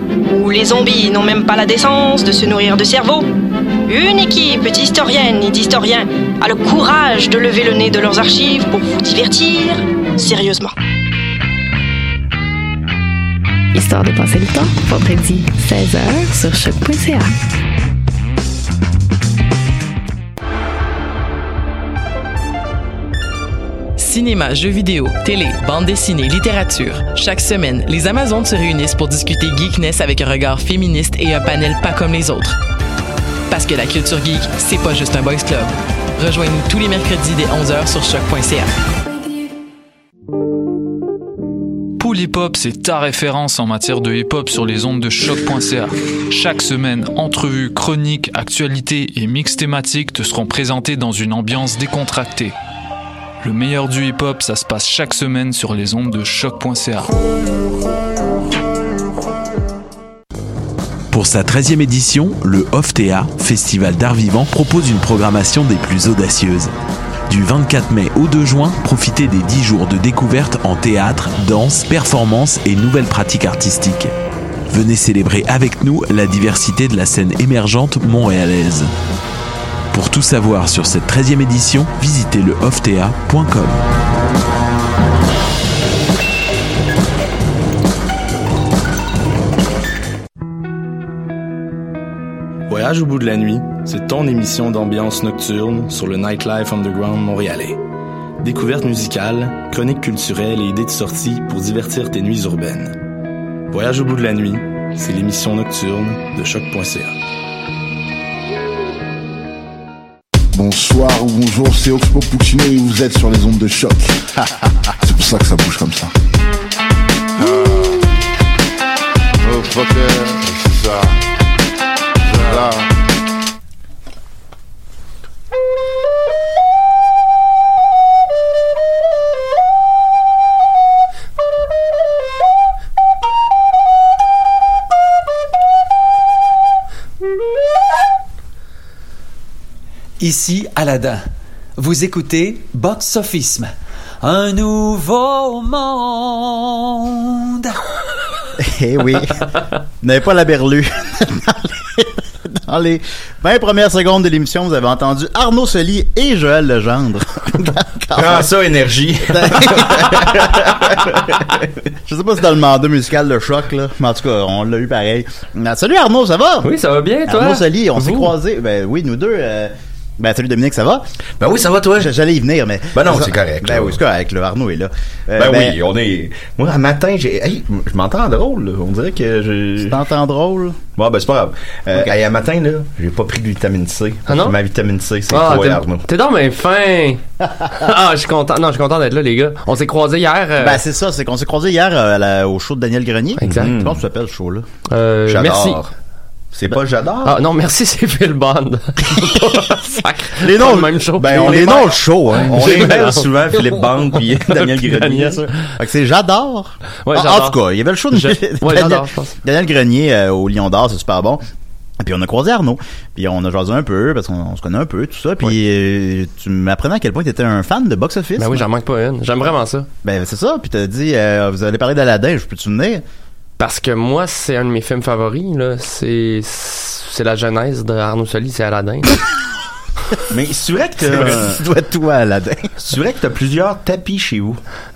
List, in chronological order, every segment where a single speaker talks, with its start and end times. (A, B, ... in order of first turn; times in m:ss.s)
0:00.3-0:03.3 A
0:03.9-0:10.7 A
0:13.7-0:17.3 B
0:24.0-0:32.6 C
0:33.5-0:38.7 C
0:42.0-0:52.5 D
0:53.4-0:57.1 D
1:01.1-1:06.7 E
1:07.3-1:14.1 E
1:14.7-1:18.9 E
1:19.9-1:23.8 E
1:32.7-1:37.8 F
1:38.4-1:42.9 F
1:43.7-1:47.2 F
1:50.5-1:54.5 G
1:55.0-1:56.1 G
1:57.4-1:58.1 G
1:59.4-2:01.2 G
2:02.2-2:02.9 G
2:20.2-2:21.2 H
2:21.8-2:23.7 H
2:24.2-2:27.8 H
2:28.6-2:38.5 I
2:38.1-2:41.7 J
2:39.3-2:40.7 I
2:42.1-2:46.7 I
2:46.6-2:48.3 K
2:47.3-2:51.0 I
2:51.4-2:52.1 J
2:52.0-2:55.8 I
2:52.9-2:54.0 J
2:55.4-3:00.0 J
2:59.8-3:00.8 I
3:01.0-3:06.1 J
3:04.3-3:04.6 K
3:05.3-3:07.2 K
3:07.8-3:10.8 K
3:10.6-3:14.7 I
3:13.4-3:13.7 K
3:13.5-3:14.0 J
3:14.9-3:15.8 K
3:15.3-3:15.9 J
3:16.5-3:17.4 J
3:17.2-3:23.3 K
3:20.4-3:23.2 I
3:21.2-3:25.4 J
3:24.7-3:25.4 K
3:25.2-3:31.4 I
3:27.0-3:27.6 K
3:28.1-3:29.4 K
3:32.0-3:38.7 I
3:38.4-3:39.9 K
3:40.0-3:43.0 I
3:43.6-3:49.2 K
3:50.3-3:51.6 J
3:51.0-3:52.7 I
3:52.8-3:54.6 J